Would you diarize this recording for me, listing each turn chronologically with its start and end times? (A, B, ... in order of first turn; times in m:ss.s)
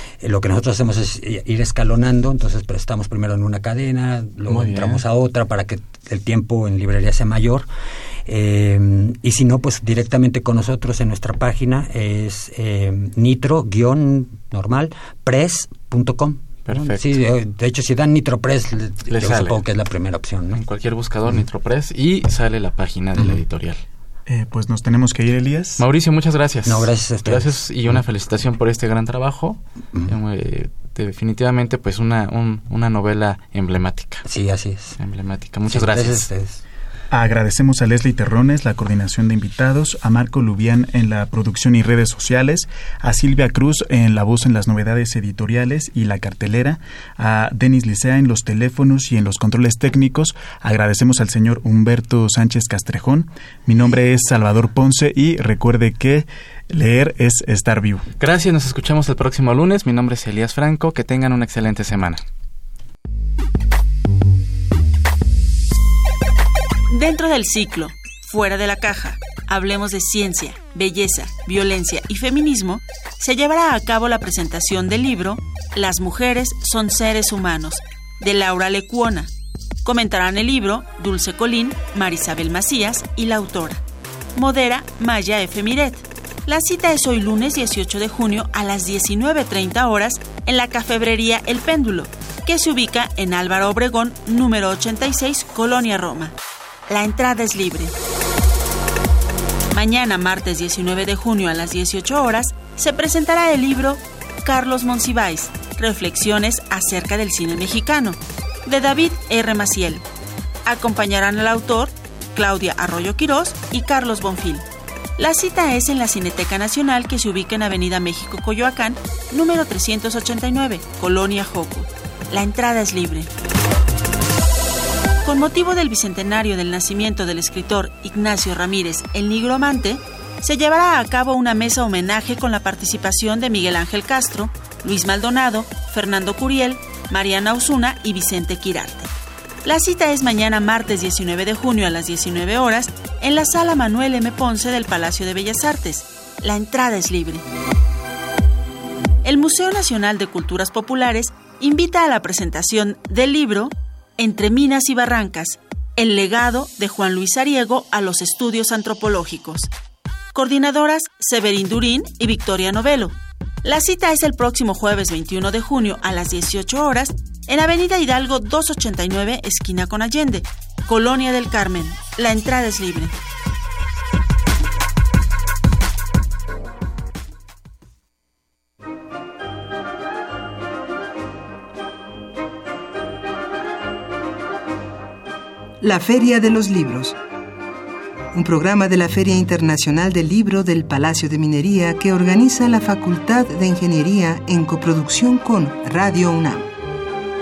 0:00.2-0:07.7 A
0:04.5-0:05.0 B
0:08.3-0:20.6 A
0:16.7-0:17.1 B
0:19.1-0:19.6 B
0:20.5-0:23.8 B
0:24.3-0:25.8 C
0:25.8-0:34.2 B
0:26.6-0:27.6 A
0:34.2-0:35.0 A
0:35.0-0:36.3 B
0:35.7-0:36.6 A
0:37.1-0:58.1 C
0:58.2-1:02.2 B
1:06.9-1:19.3 D
1:19.8-1:23.8 D
1:24.4-1:36.4 D
1:36.9-1:37.9 D
1:39.7-1:50.0 D
1:50.6-1:54.7 D
1:55.2-2:03.3 D
2:05.2-2:19.1 D
2:19.6-2:27.4 D
2:29.2-2:39.7 D
2:40.3-2:53.2 D
3:05.8-3:07.2 E
3:08.3-3:16.7 E